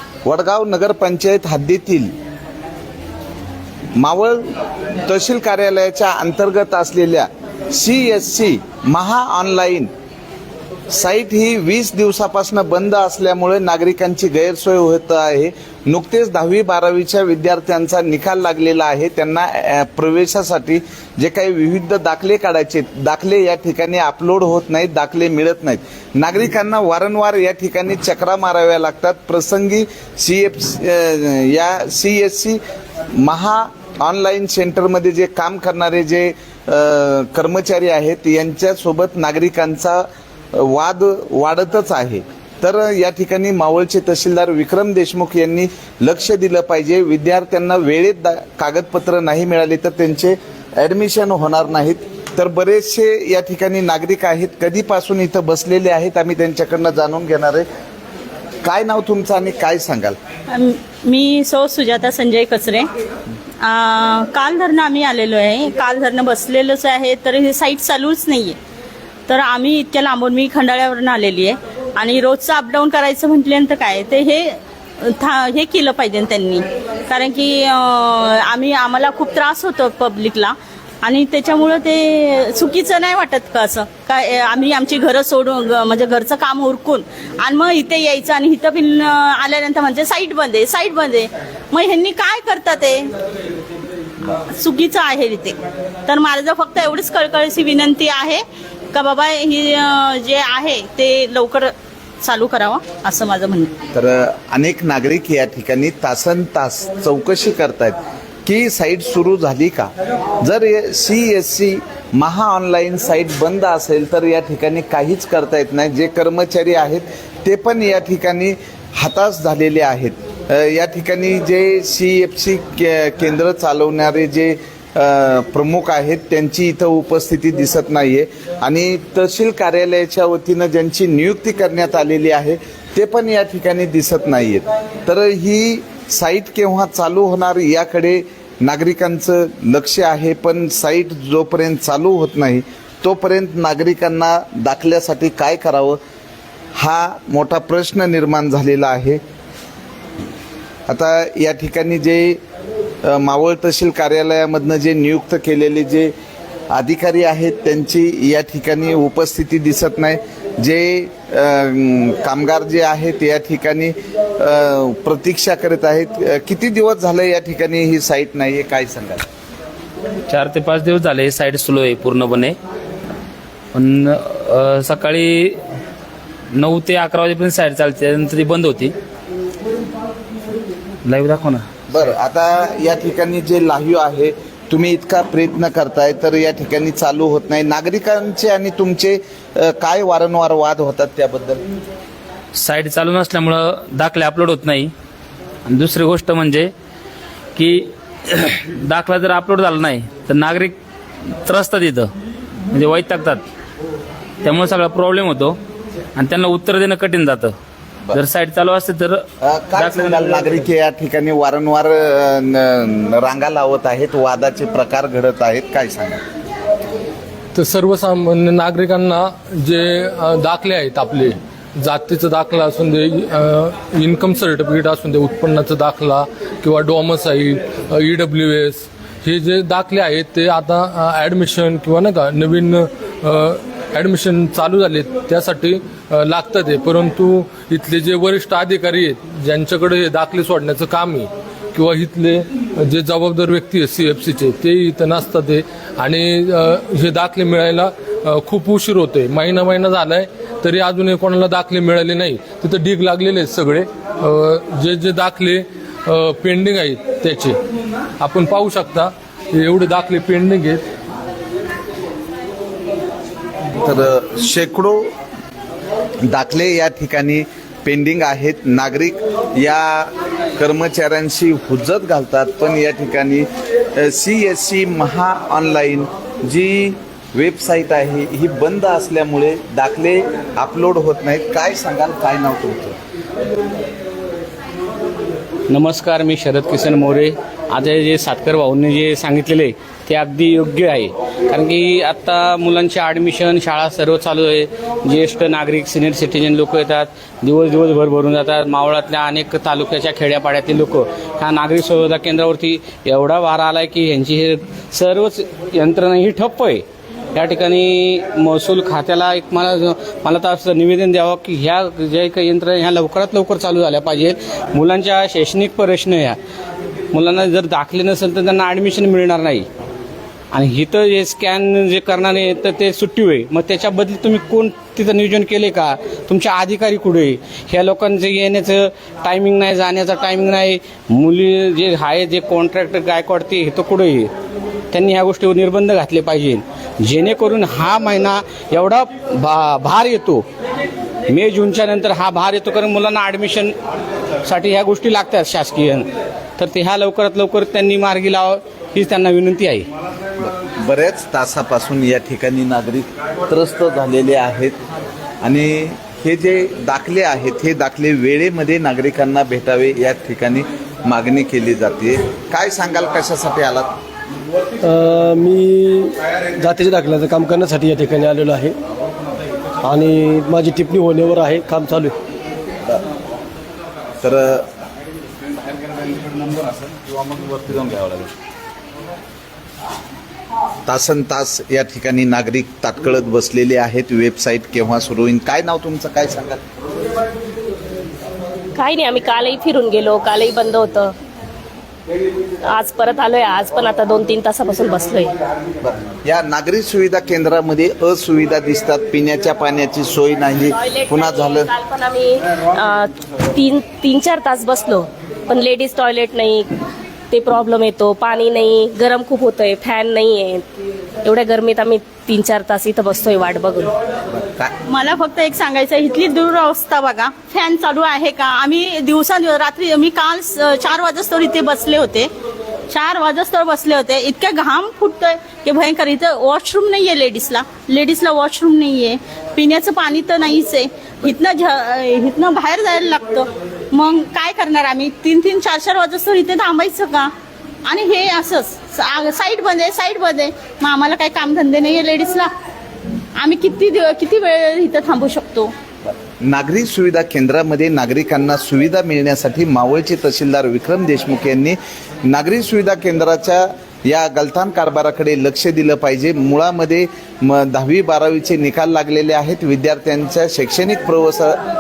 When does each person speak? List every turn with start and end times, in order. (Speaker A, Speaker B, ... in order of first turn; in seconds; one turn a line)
Speaker A: 0.2-2.1
Speaker A: 4.0-4.5
Speaker A: 5.1-9.9
Speaker A: 10.9-32.6
Speaker A: 33.2-57.6
Speaker A: 58.6-60.2
Speaker B: 60.5-62.9
Speaker B: 63.6-68.6
Speaker B: 69.3-93.1
Speaker B: 94.3-98.4
Speaker B: 98.9-103.7
Speaker A: 103.9-146.0
Speaker A: 146.8-149.2
Speaker A: 150.9-152.4
Speaker A: 153.0-156.1
Speaker A: 156.7-169.2
Speaker C: 170.3-172.6
Speaker C: 173.7-175.6
Speaker C: 176.5-178.9
Speaker C: 181.1-181.7
Speaker A: 181.9-191.6
Speaker C: 192.6-194.9
Speaker C: 195.7-196.7
Speaker C: 197.6-200.8
Speaker C: 201.5-202.1
Speaker C: 202.7-203.4
Speaker C: 204.4-205.6
Speaker C: 206.2-207.6
Speaker C: 208.1-209.2
Speaker A: 209.4-216.2
Speaker C: 209.8-210.7
Speaker D: 217.6-257.6
Speaker D: 258.2-260.8
Speaker A: 263.8-265.1
Speaker A: 266.3-283.0
Speaker E: 285.7-306.8
Speaker E: 307.4-316.4
Speaker E: 317.1-319.7
Speaker E: 320.5-334.3
Speaker E: 334.9-340.4
Speaker E: 341.3-343.7
Speaker E: 344.4-349.9
Speaker A: 350.4-354.8
Speaker A: 355.4-363.9
Speaker F: 364.8-368.8
Speaker F: 369.8-372.1
Speaker A: 374.2-374.7
Speaker A: 377.3-378.3
Speaker A: 380.9-386.6
Speaker G: 388.8-391.1
Speaker G: 392.7-395.3
Speaker A: 395.8-401.7
Speaker G: 400.8-406.7
Speaker G: 407.3-410.6
Speaker G: 411.3-413.9
Speaker A: 414.4-414.7
Speaker B: 414.9-422.3
Speaker B: 422.9-437.3
Speaker B: 437.9-442.5
Speaker B: 443.4-445.7
Speaker A: 446.4-461.6